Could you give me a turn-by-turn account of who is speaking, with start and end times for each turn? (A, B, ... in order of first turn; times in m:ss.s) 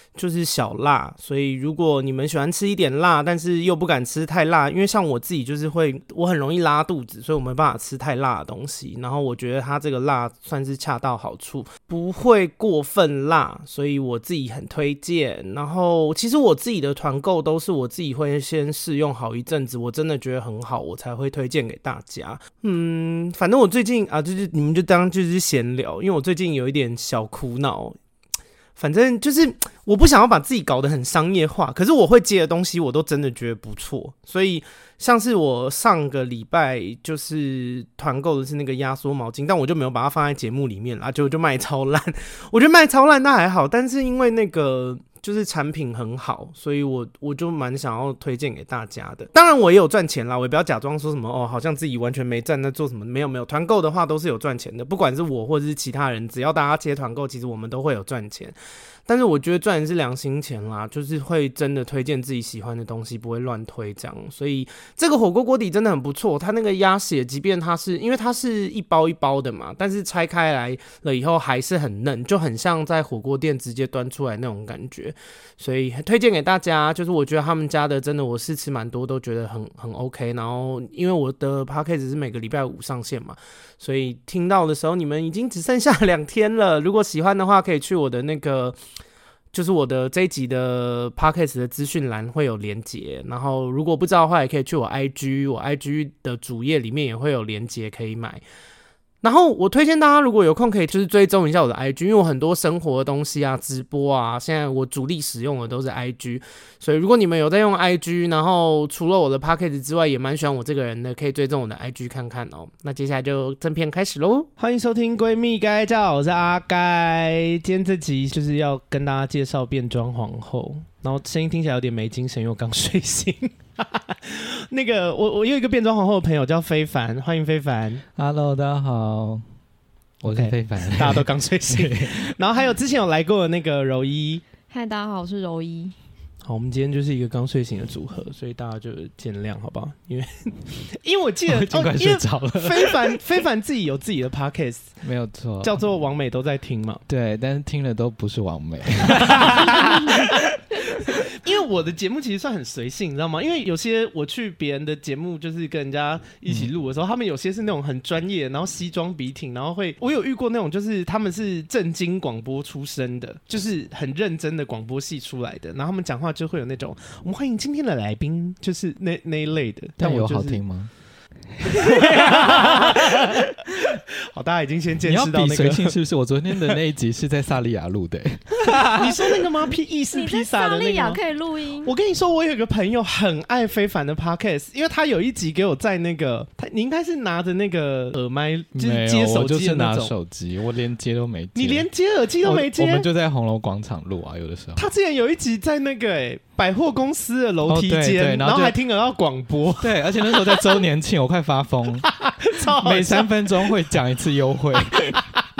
0:00.2-0:28.0 A
0:28.8-0:58.5 A
0:59.1-1:28.8 A
1:29.5-1:38.4 A
1:39.2-2:08.0 A
2:08.2-2:09.4 B
2:10.2-2:12.3 B
2:10.2-2:14.4 A
2:14.7-2:15.9 C
2:16.4-2:24.9 A
2:21.5-2:23.2 B
2:25.0-2:25.8 B
2:25.6-2:27.0 A
2:27.1-2:30.6 B
2:29.1-2:30.5 A
2:31.0-2:50.6 A
2:50.0-2:50.9 B
2:51.6-2:54.0 B
2:51.6-2:56.0 A
2:55.0-2:59.2 B
2:58.6-3:01.2 A
3:00.1-3:01.9 C
3:01.8-3:10.1 A
3:08.7-3:11.9 B
3:11.5-3:13.0 A
3:12.4-3:14.8 B
3:14.8-3:20.8 A
3:17.6-3:18.8 B
3:19.8-3:22.1 B
3:22.1-3:23.7 A
3:22.7-3:25.3 B